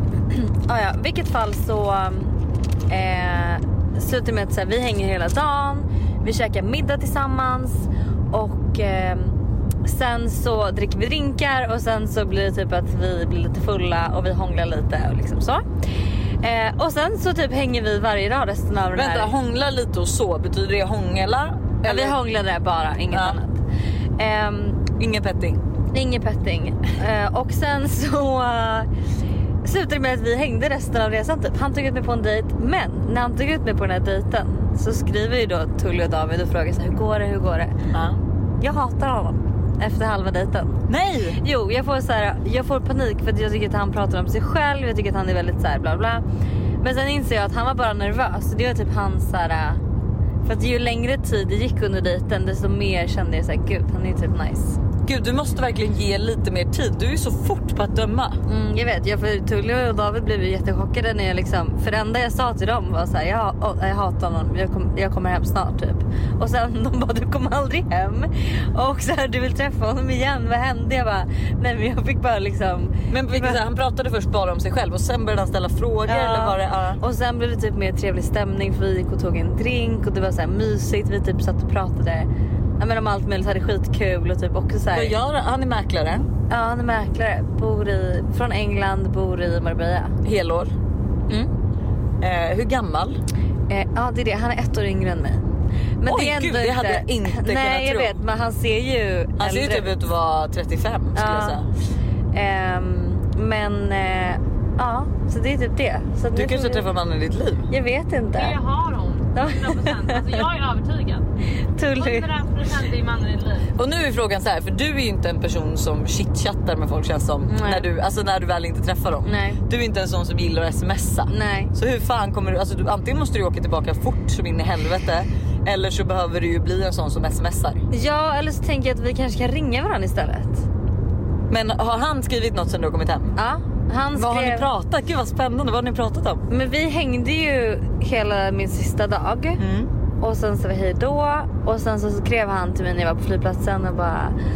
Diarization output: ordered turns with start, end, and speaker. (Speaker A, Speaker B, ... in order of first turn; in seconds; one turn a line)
Speaker A: 0.3-2.3
Speaker A: 2.9-15.6
Speaker A: 16.4-19.3
Speaker B: 18.9-22.2
Speaker A: 21.8-23.6
Speaker B: 23.1-23.4
Speaker A: 24.2-24.9
Speaker B: 25.0-25.6
Speaker A: 25.9-28.9
Speaker A: 29.6-37.7
Speaker B: 37.9-38.2
Speaker A: 38.6-40.8
Speaker B: 40.9-41.4
Speaker A: 41.4-46.2
Speaker A: 46.8-49.8
Speaker A: 50.4-54.8
Speaker B: 55.0-58.4
Speaker A: 58.5-73.6
Speaker B: 73.1-77.0
Speaker A: 76.0-85.2
Speaker B: 84.9-86.3
Speaker A: 86.5-90.1
Speaker B: 90.2-90.7
Speaker B: 92.2-93.2
Speaker A: 93.7-95.4
Speaker A: 96.0-99.9
Speaker B: 96.0-98.2
Speaker B: 99.4-101.7
Speaker A: 101.1-101.6
Speaker A: 102.3-106.9
Speaker B: 106.3-107.7
Speaker A: 107.7-108.6
Speaker C: 108.3-111.2
Speaker A: 109.3-110.4
Speaker A: 111.8-112.3
Speaker C: 112.0-113.7
Speaker B: 113.7-127.8
Speaker A: 117.5-117.9
Speaker A: 119.2-119.6
Speaker A: 121.3-121.7
Speaker A: 127.9-130.6
Speaker B: 131.5-133.3
Speaker A: 133.4-134.7
Speaker B: 134.1-136.4
Speaker A: 136.5-139.6
Speaker B: 139.6-139.9
Speaker A: 140.2-144.3